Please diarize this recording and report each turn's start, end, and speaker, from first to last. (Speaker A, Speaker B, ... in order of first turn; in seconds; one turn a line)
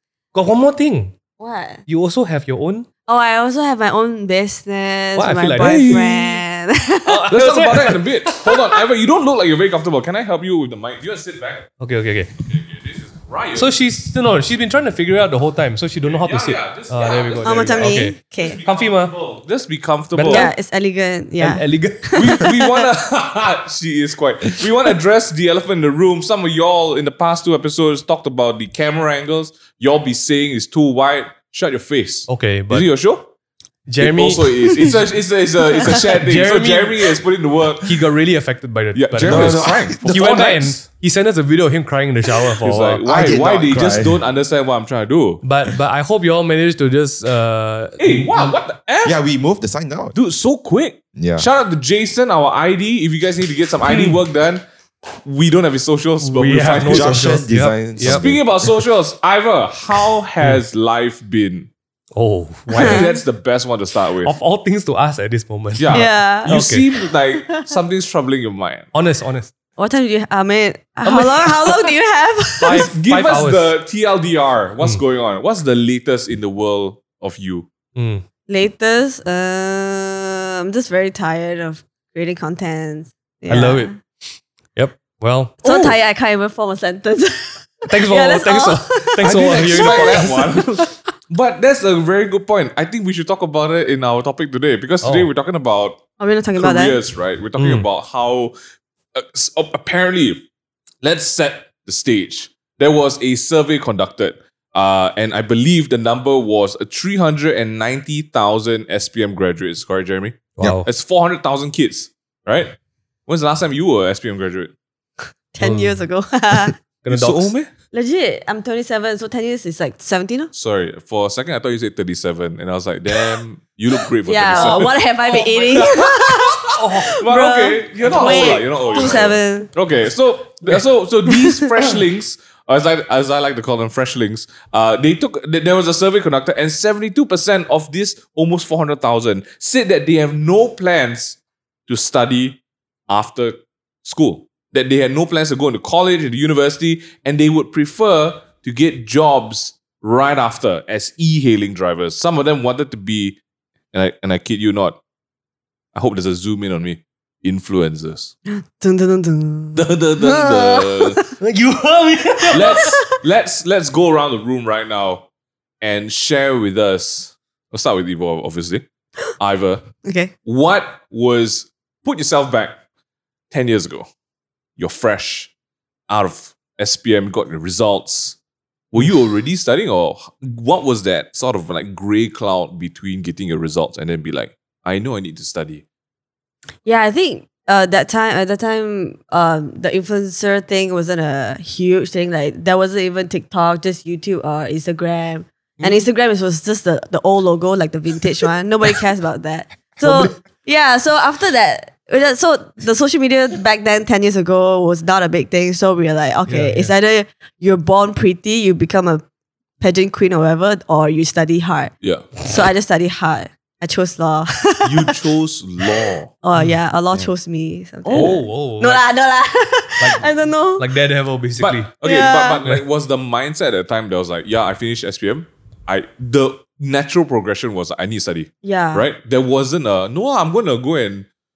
Speaker A: 0.3-1.1
Speaker B: 1.4-1.8
Speaker A: 1.9-2.9
Speaker B: 3.1-7.3
Speaker A: 5.2-6.1
Speaker C: 5.6-6.4
Speaker A: 7.1-8.5
Speaker C: 7.3-11.7
Speaker A: 11.8-12.3
Speaker C: 12.4-13.8
Speaker A: 13.6-19.1
Speaker C: 16.0-20.5
Speaker B: 17.4-18.6
Speaker A: 20.1-20.5
Speaker B: 20.3-22.9
Speaker A: 21.4-22.5
Speaker C: 22.1-33.3
Speaker A: 32.3-32.9
Speaker A: 33.9-35.1
Speaker C: 34.0-37.9
Speaker A: 35.9-37.1
Speaker A: 37.8-43.0
Speaker C: 39.0-40.8
Speaker D: 39.2-40.1
Speaker C: 42.6-45.4
Speaker D: 43.0-44.2
Speaker A: 45.4-48.5
Speaker C: 48.0-49.2
Speaker D: 49.0-50.1
Speaker C: 50.1-57.3
Speaker D: 51.2-51.5
Speaker A: 53.9-54.2
Speaker A: 56.2-58.3
Speaker D: 56.8-58.7
Speaker C: 58.0-61.7
Speaker A: 62.1-63.1
Speaker C: 62.7-64.3
Speaker B: 62.8-63.2
Speaker A: 64.2-66.8
Speaker C: 65.8-68.9
Speaker B: 65.9-66.6
Speaker B: 67.3-67.8
Speaker A: 68.9-69.5
Speaker B: 69.8-72.9
Speaker A: 71.1-71.8
Speaker A: 72.6-73.7
Speaker C: 72.6-77.7
Speaker A: 78.0-78.2
Speaker B: 78.5-84.0
Speaker A: 83.5-83.9
Speaker A: 84.8-86.0
Speaker B: 85.6-90.9
Speaker A: 87.9-90.9
Speaker C: 89.2-96.0
Speaker A: 95.0-95.3
Speaker B: 96.2-97.0
Speaker C: 96.6-98.5
Speaker A: 97.6-97.9
Speaker C: 99.2-100.4
Speaker C: 101.0-112.8
Speaker A: 110.6-110.9
Speaker C: 113.3-114.7
Speaker B: 115.5-116.7
Speaker A: 115.6-116.1
Speaker A: 117.0-117.5
Speaker C: 117.1-117.7
Speaker B: 117.9-120.5
Speaker C: 120.5-153.4
Speaker B: 124.2-129.7
Speaker A: 124.6-125.9
Speaker A: 126.7-127.2
Speaker A: 128.0-129.2
Speaker C: 153.9-155.0
Speaker C: 155.9-158.3
Speaker B: 158.5-161.1
Speaker C: 159.8-161.2
Speaker A: 161.4-163.0
Speaker C: 162.5-165.3
Speaker B: 162.6-163.0
Speaker C: 165.8-168.8
Speaker C: 169.4-169.9
Speaker B: 170.1-170.3
Speaker C: 170.4-172.8
Speaker C: 173.5-174.1
Speaker C: 174.8-175.5
Speaker C: 176.1-178.4
Speaker C: 178.9-185.8
Speaker B: 186.8-209.2
Speaker A: 200.0-200.3
Speaker A: 206.5-206.9
Speaker B: 209.8-215.2
Speaker C: 212.0-212.4
Speaker C: 214.8-216.3
Speaker B: 216.4-220.9
Speaker A: 216.5-216.8
Speaker A: 218.1-219.0
Speaker C: 218.1-218.4
Speaker A: 220.0-221.9
Speaker C: 221.6-231.3
Speaker B: 222.0-222.6
Speaker B: 228.6-229.1